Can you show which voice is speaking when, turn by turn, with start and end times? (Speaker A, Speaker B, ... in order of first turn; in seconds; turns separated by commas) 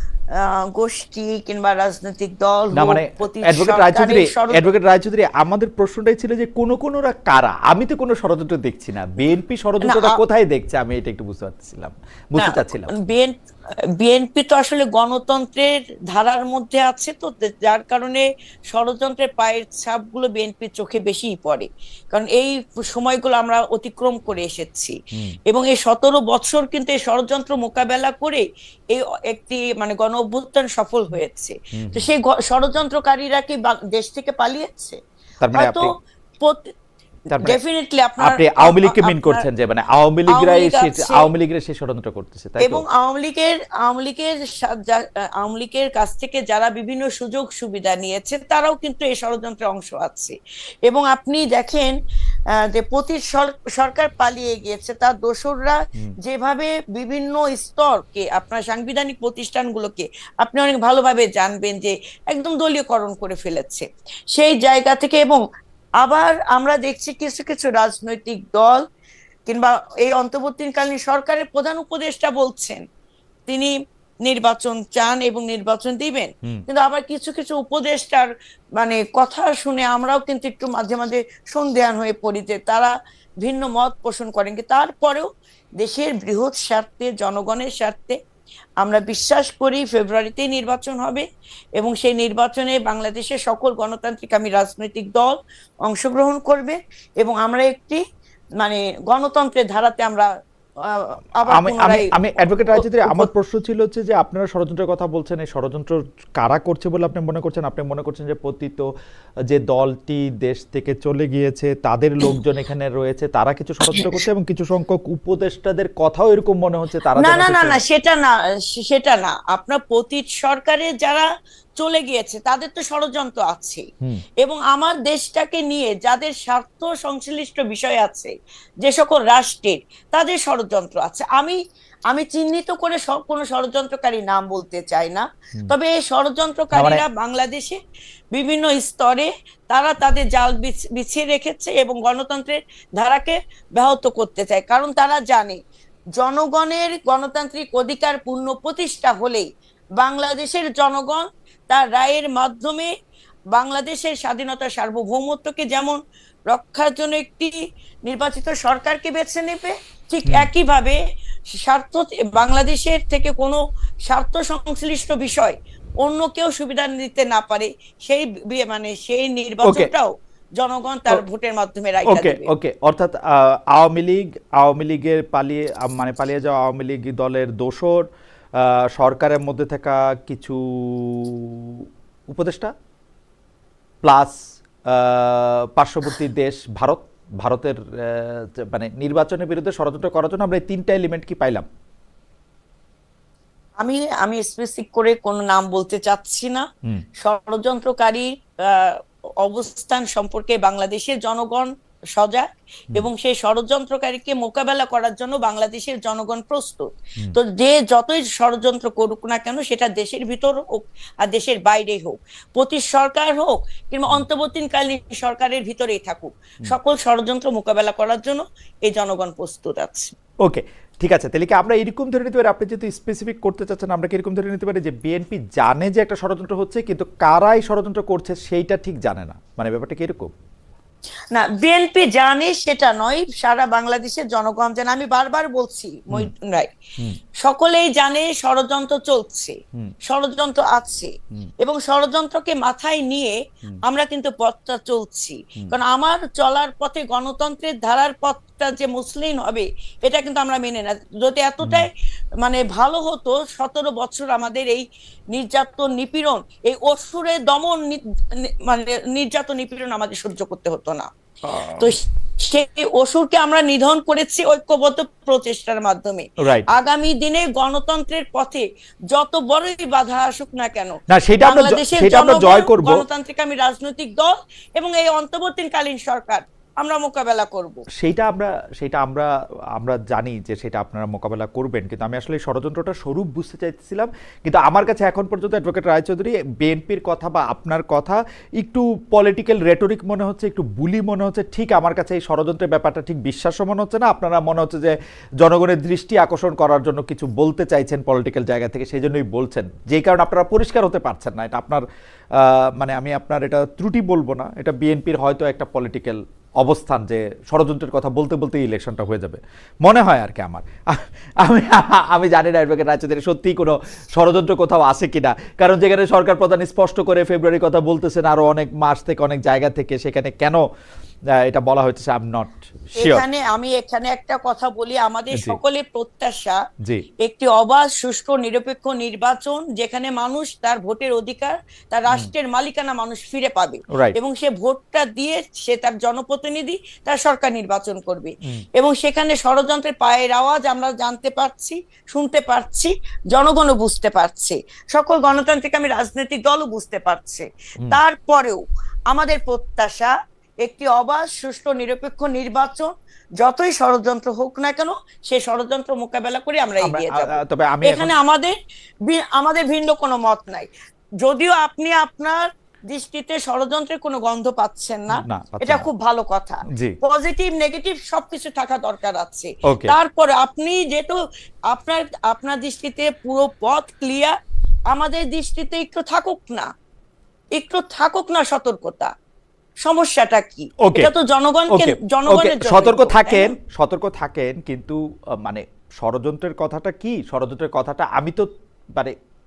Speaker A: 0.4-4.6, Speaker B: 2.7-12.9, Speaker A: 9.8-10.2, Speaker A: 12.4-13.3, Speaker A: 14.0-35.0, Speaker B: 31.7-32.1, Speaker B: 35.4-35.9, Speaker A: 35.5-36.7, Speaker B: 37.3-37.6, Speaker A: 37.4-39.5, Speaker B: 38.2-42.8, Speaker A: 40.3-41.3, Speaker A: 42.6-52.0, Speaker A: 52.5-65.4, Speaker A: 66.0-68.8, Speaker A: 69.5-72.8, Speaker A: 73.5-88.2, Speaker A: 88.8-91.3, Speaker A: 91.8-98.0, Speaker A: 98.6-100.3, Speaker A: 100.8-102.1, Speaker B: 101.5-108.9, Speaker A: 102.7-103.3, Speaker B: 109.5-117.8, Speaker A: 113.9-114.2, Speaker A: 117.2-121.3, Speaker A: 121.8-123.9, Speaker A: 124.4-137.8, Speaker B: 136.7-137.0, Speaker A: 138.3-145.6, Speaker A: 146.2-152.9, Speaker A: 153.5-156.0, Speaker A: 156.5-157.5, Speaker A: 158.1-161.0, Speaker A: 161.5-172.5, Speaker B: 169.6-169.9, Speaker B: 172.1-178.1, Speaker B: 178.6-182.7, Speaker B: 184.0-184.4, Speaker B: 184.9-191.7, Speaker A: 193.8-196.7, Speaker A: 197.2-220.1, Speaker B: 220.4-230.3, Speaker A: 231.3-236.7, Speaker A: 237.4-251.9, Speaker B: 251.6-251.9, Speaker A: 252.4-261.1, Speaker B: 261.5-261.9, Speaker A: 261.6-277.9, Speaker B: 266.4-266.7, Speaker B: 271.1-273.0, Speaker B: 278.0-320.6, Speaker B: 321.3-323.2, Speaker A: 323.0-326.6, Speaker B: 325.3-325.6, Speaker A: 327.2-360.7, Speaker B: 356.8-358.1, Speaker A: 361.2-374.4, Speaker B: 365.1-365.9, Speaker B: 366.7-367.0, Speaker B: 369.6-370.0, Speaker A: 374.9-376.7, Speaker A: 377.5-379.1, Speaker A: 379.8-383.6, Speaker B: 380.8-381.1, Speaker B: 381.7-389.1